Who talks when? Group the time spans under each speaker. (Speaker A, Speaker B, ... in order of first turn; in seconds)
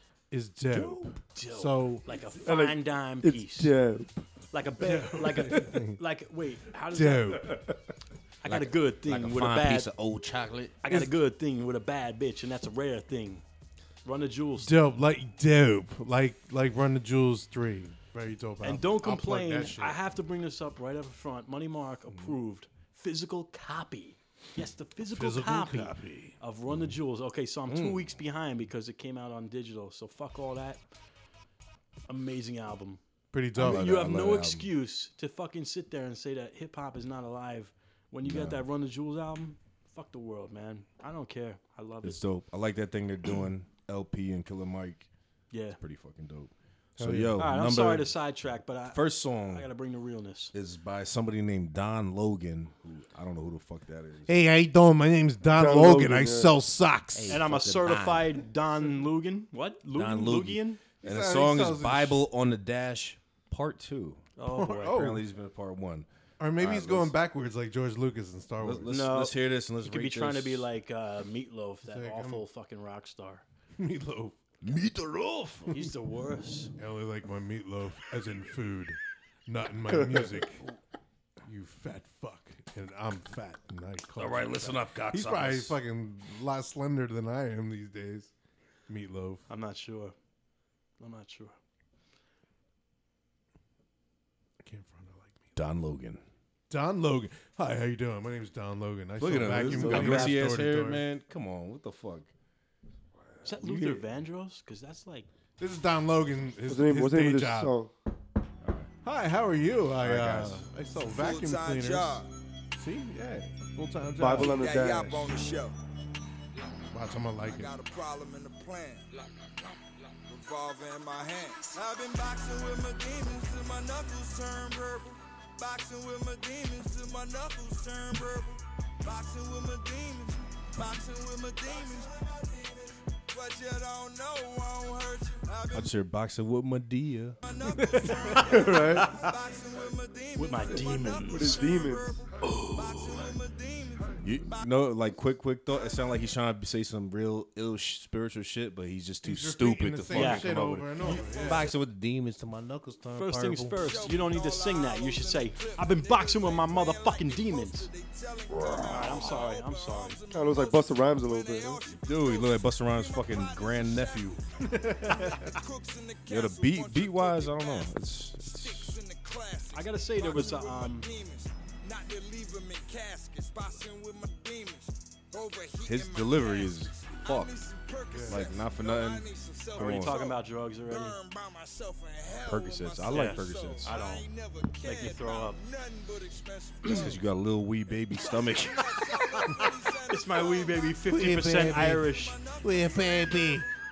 Speaker A: 0.3-2.1, 4.8-6.0, 6.9-7.7, 10.9-11.1, 14.6-20.0, 25.0-26.4, 33.3-34.0, 47.0-47.5, 54.3-57.4, 61.0-62.2, 64.5-65.2, 66.4-68.9, 71.8-72.4, 73.8-74.4, 76.8-80.7, 81.4-88.3, 88.9-89.5, 94.6-95.4, 96.7-101.0, 105.6-107.7, 109.0-114.7, 116.9-117.7, 138.3-139.1, 149.2-151.7, 164.7-165.6, 178.1-178.4, 191.1-192.1, 192.6-193.7
Speaker B: 0.7-1.1, 8.4-10.8, 27.7-28.1, 33.5-34.7, 38.2-38.6, 42.0-45.1, 45.8-48.1, 48.9-49.7, 50.5-54.3, 57.1-58.4, 59.9-64.3, 64.9-66.0, 66.6-67.1, 68.6-70.7, 74.6-75.7, 84.2-85.8, 95.5-96.2, 99.2-102.3, 103.6-103.9, 108.6-108.9, 110.0-110.7, 135.7-137.4, 144.2-153.9, 161.9-164.4, 166.3-169.0, 175.8-177.5, 178.3-180.2, 182.4-183.9, 186.9-189.0
Speaker C: 1.3-3.7, 4.5-7.6, 8.4-9.9, 10.8-13.4, 14.0-14.7, 18.6-30.8, 32.1-33.0, 33.5-42.2, 45.5-45.8, 47.4-50.5, 57.3-60.8, 64.4-65.0, 68.9-73.4, 75.7-76.7, 89.5-90.1, 91.0-91.6, 99.8-100.3, 103.4-105.3, 138.3-139.3, 140.3-141.6, 150.1-151.3, 153.2-157.9, 158.8-160.2, 169.7-171.1, 179.8-181.2, 183.1-184.3, 184.8-185.6, 186.8-187.1, 189.4-192.4
Speaker D: 2.3-4.2, 55.5-56.5, 99.7-100.3, 106.6-107.9, 114.2-115.4, 141.2-142.2, 160.3-161.8
Speaker E: 111.0-112.3, 114.4-115.8, 117.4-135.9, 137.4-145.0, 153.8-187.2, 188.1-191.6, 192.2-193.5